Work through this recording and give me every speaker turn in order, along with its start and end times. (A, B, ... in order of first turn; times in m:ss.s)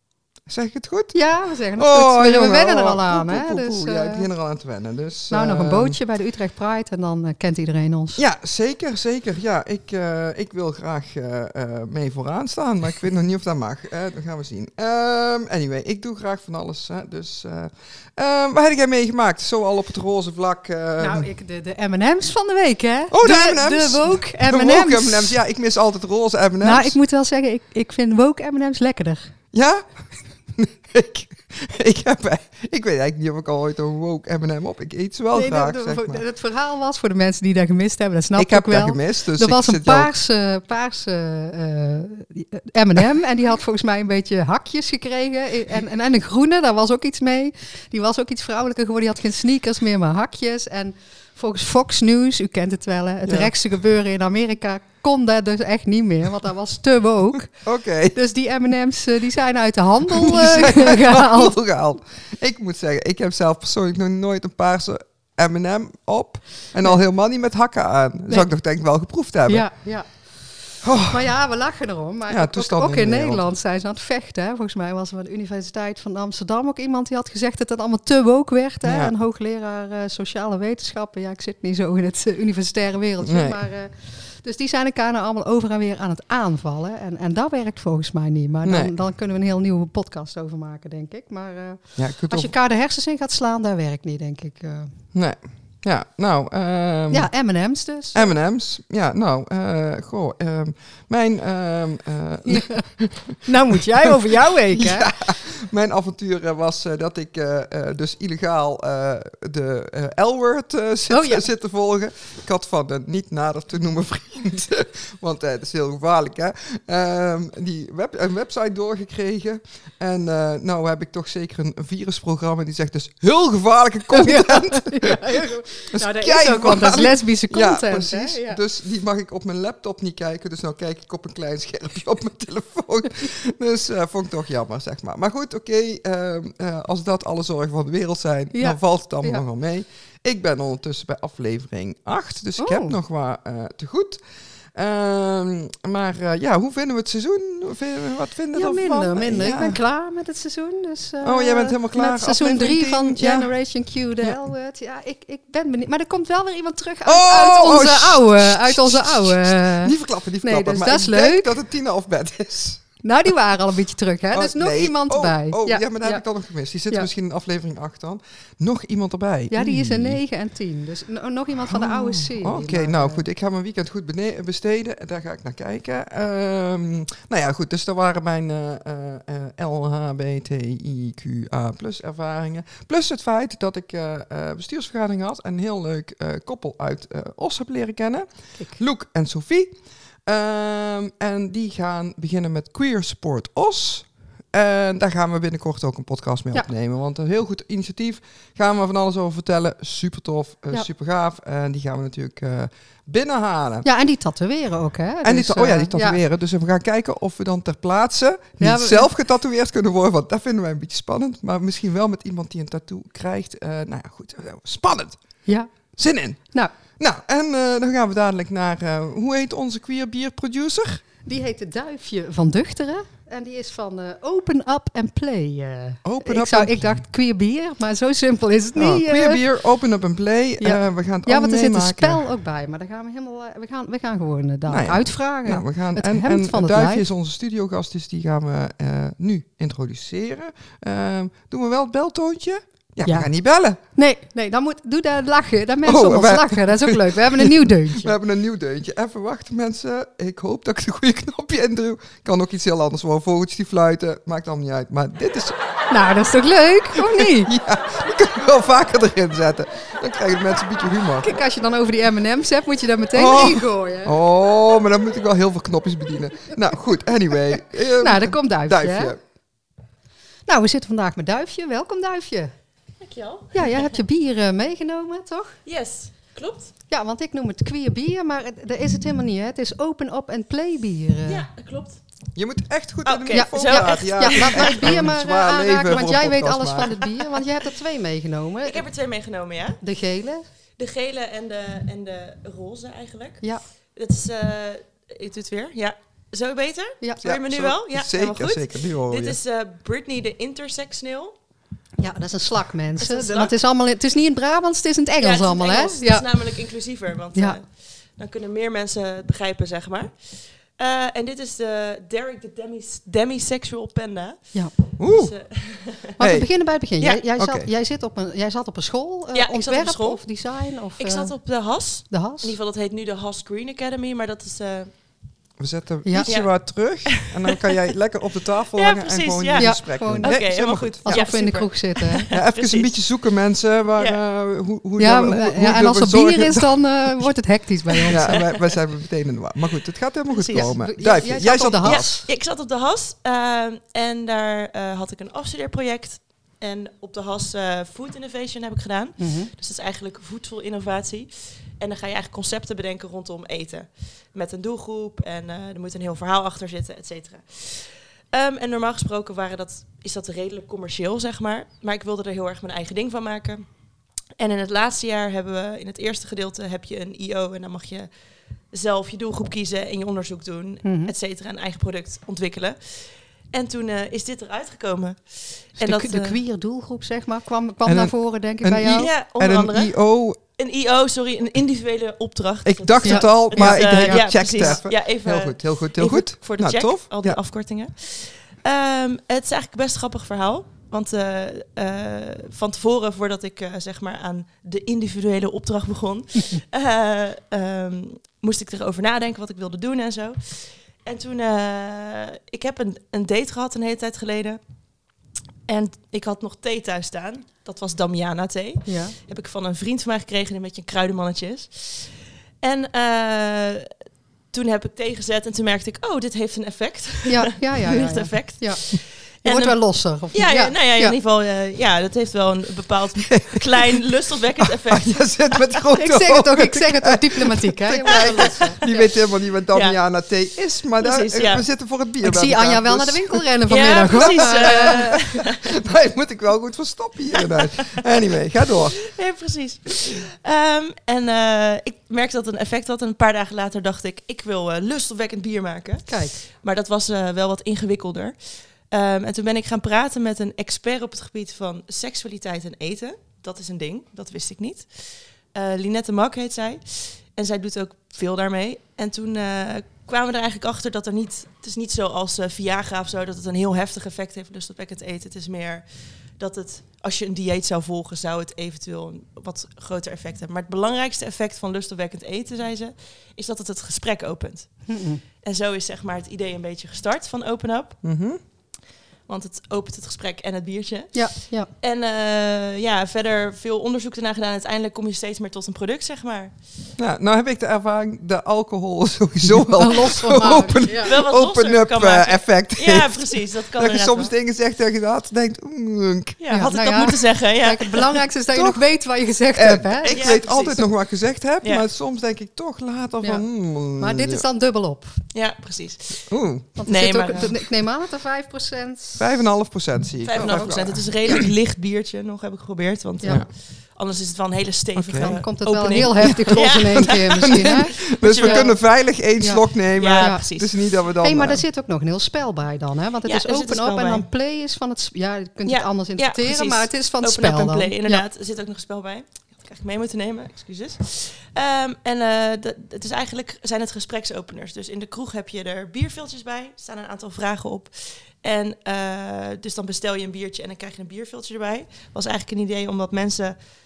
0:00.5-0:01.2 A
0:01.1-0:04.3 B
0:01.8-0:06.0 A
0:05.3-0:08.2 B
0:08.2-0:21.3 A
0:21.0-0:25.3 B
0:23.1-0:27.0 A
0:26.6-0:29.3 B
0:29.5-0:36.2 A
0:35.3-0:57.5 B
0:38.4-0:40.1 A
0:53.2-0:53.5 A
0:57.6-0:58.2 A
0:58.1-1:01.6 B
1:00.1-1:09.7 A
1:09.4-1:34.9 B
1:10.8-1:11.3 A
1:12.3-1:13.4 A
1:18.8-1:19.1 A
1:23.2-1:23.6 A
1:28.6-1:28.9 A
1:32.0-1:32.5 A
1:35.1-1:37.3 A
1:37.1-1:38.3 B
1:38.1-2:24.2 A
1:42.4-1:42.8 B
1:43.4-1:45.1 B
1:51.1-1:51.5 B
2:04.1-2:08.6 B
2:18.5-2:19.4 B
2:22.6-2:22.9 B
2:24.7-2:29.8 A
2:28.5-2:41.5 B
2:31.2-2:33.5 A
2:37.0-2:42.8 A
2:43.0-2:46.2 B
2:44.3-2:50.2 A
2:49.5-2:53.2 B
2:51.7-3:23.9 A
3:23.8-3:26.2 B
3:25.2-3:35.2 A
3:28.6-3:29.1 B
3:35.4-3:35.7 B
3:36.0-3:41.0 A
3:41.2-3:49.4 B
3:46.0-3:47.0 A
3:48.8-3:52.2 A
3:50.6-3:57.0 B
3:54.7-4:03.8 A
4:03.0-4:03.3 B
4:03.9-4:08.1 B
4:05.8-4:15.6 A
4:15.9-4:17.5 B
4:17.0-4:21.3 A
4:21.2-4:24.1 B
4:23.1-4:29.2 A
4:28.0-4:29.1 B
4:30.4-4:32.5 B
4:33.0-4:33.9 C
4:33.5-4:35.6 B
4:35.6-4:36.8 C
4:36.9-4:41.4 B
4:41.2-4:42.0 C
4:42.3-4:46.9 A
4:43.0-4:45.0 C
4:43.3-4:48.8 B
4:48.6-4:49.8 C
4:49.8-4:50.4 B
4:50.8-5:01.3 C
4:57.2-4:59.4 A
5:02.0-5:06.3 B
5:03.0-5:03.5 C
5:05.2-5:16.2 C
5:15.0-5:15.3 A
5:16.2-5:21.4 B
5:16.2-5:16.7 A
5:17.4-5:17.7 A
5:19.3-5:24.9 C
5:22.1-5:22.6 B
5:25.6-5:31.3 A
5:26.2-5:27.8 C
5:28.7-5:33.0 C
5:29.6-5:32.2 B
5:32.3-5:37.3 A
5:35.0-5:38.4 B
5:37.9-5:38.8 C
5:38.1-5:42.1 A
5:40.3-5:40.7 C
5:40.6-5:42.3 B
5:41.8-6:03.6 C
5:49.2-5:49.5 B
6:04.4-6:08.1 C
6:08.7-6:16.4 C
6:10.8-6:11.1 B
6:15.8-6:19.1 B
6:17.8-6:20.4 A
6:18.9-6:44.6 C
6:22.6-6:27.4 A
6:23.0-6:24.8 B
6:45.7-6:53.9 C
6:48.9-6:49.2 B
6:54.5-7:05.8 C
6:57.3-6:58.8 B
6:59.4-7:01.2 B
7:03.3-7:04.0 A
7:04.6-7:13.4 A
7:06.0-7:08.8 B
7:08.1-7:09.1 C
7:09.7-7:10.0 C
7:11.0-7:11.6 C
7:12.2-7:15.2 B
7:13.7-7:15.7 C
7:14.0-7:19.0 A
7:17.3-7:18.0 C
7:18.7-7:58.0 C
7:26.1-7:26.3 B
7:54.9-7:55.2 B
7:58.0-7:58.4 A
7:59.2-8:06.6 C
8:01.1-8:01.7 B
8:07.0-8:16.4 A
8:09.7-8:11.1 B
8:11.0-8:14.3 C
8:16.4-8:18.2 C
8:16.5-8:20.3 B
8:18.5-8:18.8 A
8:19.5-8:24.4 A
8:20.1-8:20.9 C
8:23.2-8:25.2 B
8:25.3-8:26.3 C
8:26.3-8:26.7 A
8:26.8-8:29.3 B
8:26.8-8:27.6 C
8:29.2-8:31.4 A
8:30.2-8:38.8 C
8:30.4-8:30.8 B
8:34.9-8:35.4 A
8:35.1-8:48.2 B
8:36.2-8:41.6 A
8:39.9-8:40.9 C
8:43.2-8:44.3 C
8:45.6-9:03.6 C